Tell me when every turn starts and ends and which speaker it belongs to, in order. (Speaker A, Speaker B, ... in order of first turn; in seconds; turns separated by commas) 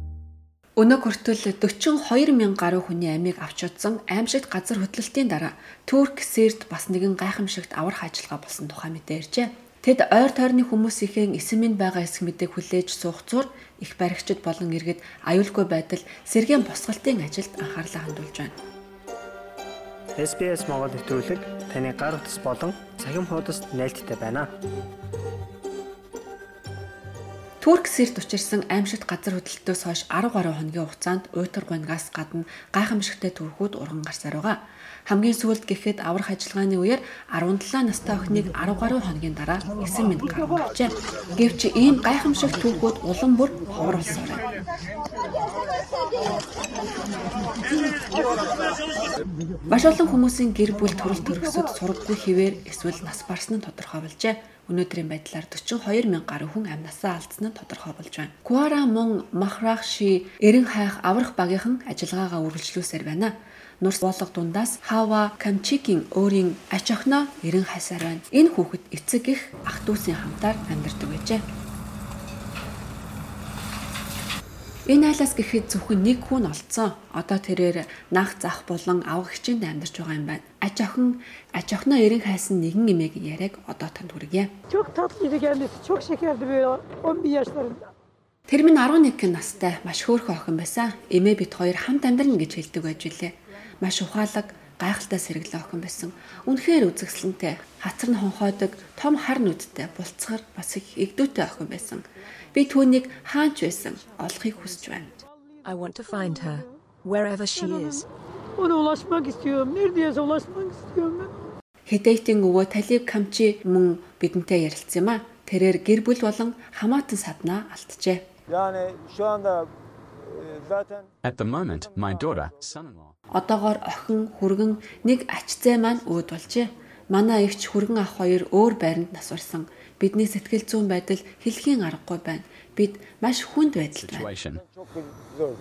Speaker A: 0.8-18.5, Speaker B: 20.2-24.5, Speaker A: 27.6-44.4, Speaker A: 49.7-71.4, Speaker A: 74.9-84.5, Speaker C: 84.7-87.9, Speaker A: 88.5-105.2, Speaker C: 105.6-106.8, Speaker D: 105.6-108.1, Speaker C: 107.5-108.1, Speaker C: 108.6-111.5, Speaker A: 111.9-118.3, Speaker E: 121.2-123.1, Speaker A: 123.3-134.3, Speaker E: 134.0-134.6